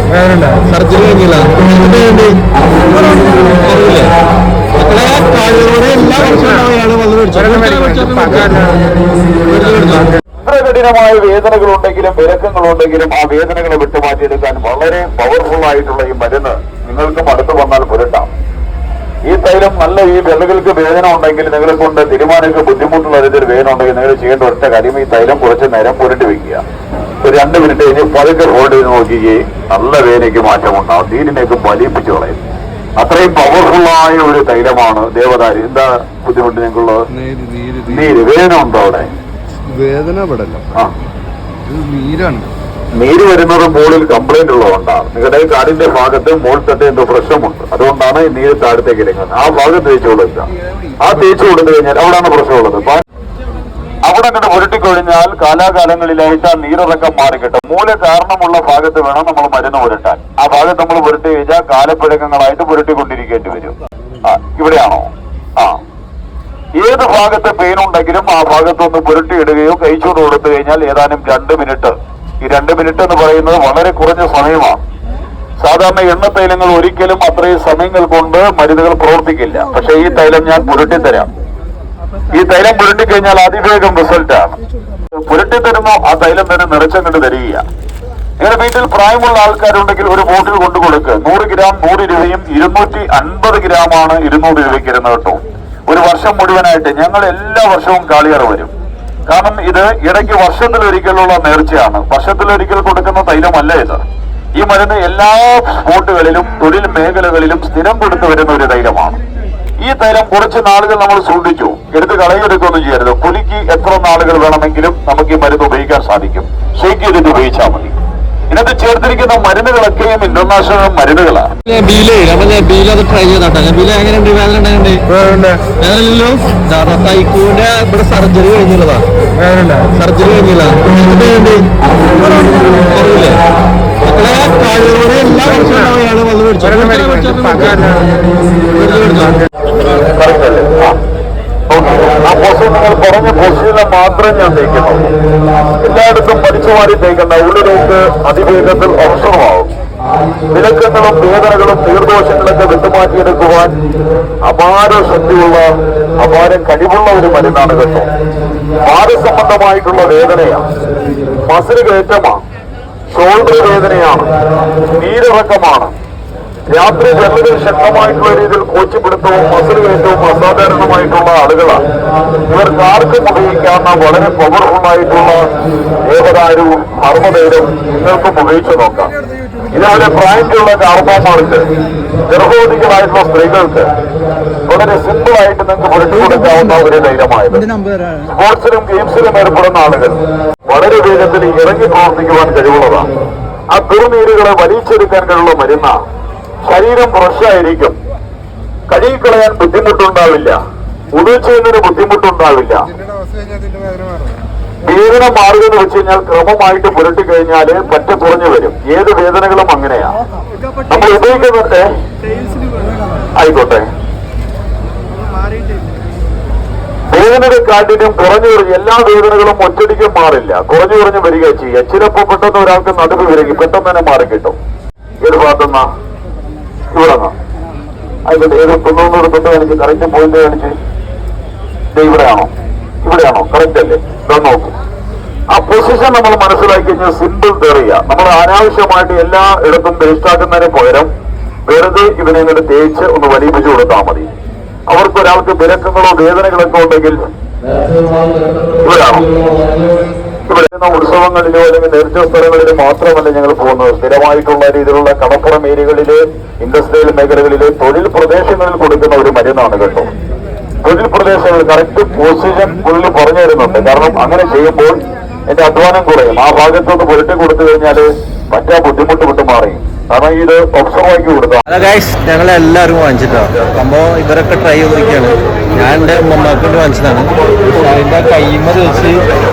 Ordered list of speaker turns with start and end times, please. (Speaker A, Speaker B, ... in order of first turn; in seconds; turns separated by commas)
Speaker A: 0.1-0.6, Speaker B: 0.5-4.2, Speaker B: 4.7-8.8, Speaker B: 9.4-10.1, Speaker C: 10.4-18.3, Speaker C: 19.3-26.6, Speaker C: 27.2-32.4, Speaker C: 33.0-37.0, Speaker A: 37.1-38.1, Speaker C: 37.9-39.1, Speaker A: 39.6-40.7, Speaker A: 41.6-42.5, Speaker C: 43.0-50.5, Speaker C: 51.0-53.0, Speaker C: 54.0-65.8, Speaker C: 66.8-74.8, Speaker C: 75.6-81.3, Speaker C: 82.3-84.6, Speaker C: 85.1-87.6, Speaker C: 88.4-98.7, Speaker C: 99.3-104.0, Speaker C: 104.5-109.2, Speaker C: 109.8-118.0, Speaker C: 118.5-121.5, Speaker B: 121.7-125.0, Speaker A: 125.1-125.6, Speaker B: 125.7-129.1, Speaker A: 129.4-129.9, Speaker B: 129.9-133.4, Speaker B: 134.0-138.0, Speaker B: 138.7-139.4, Speaker C: 140.0-141.0, Speaker C: 141.7-145.1, Speaker C: 145.8-149.7, Speaker C: 150.5-153.8, Speaker C: 154.4-158.1, Speaker C: 158.8-160.7, Speaker C: 161.4-162.4, Speaker C: 163.1-164.3, Speaker C: 164.9-165.9, Speaker C: 166.7-171.8, Speaker C: 172.5-175.5, Speaker C: 176.1-179.1, Speaker C: 179.7-181.7, Speaker C: 182.2-183.9, Speaker C: 184.7-193.1, Speaker C: 193.7-195.9, Speaker C: 196.6-198.0, Speaker C: 198.9-200.6, Speaker C: 201.1-202.8, Speaker C: 204.8-210.2, Speaker C: 210.9-211.9, Speaker C: 213.3-213.8, Speaker C: 217.1-224.6, Speaker C: 225.2-225.9, Speaker C: 226.9-227.3, Speaker C: 228.2-230.8, Speaker C: 231.9-232.5, Speaker C: 233.0-234.7, Speaker C: 235.5-241.1, Speaker C: 241.7-244.3, Speaker C: 244.9-247.2, Speaker B: 247.9-248.8, Speaker C: 248.8-249.3, Speaker B: 249.3-249.8, Speaker C: 250.5-260.1, Speaker C: 260.8-271.6, Speaker B: 271.7-279.3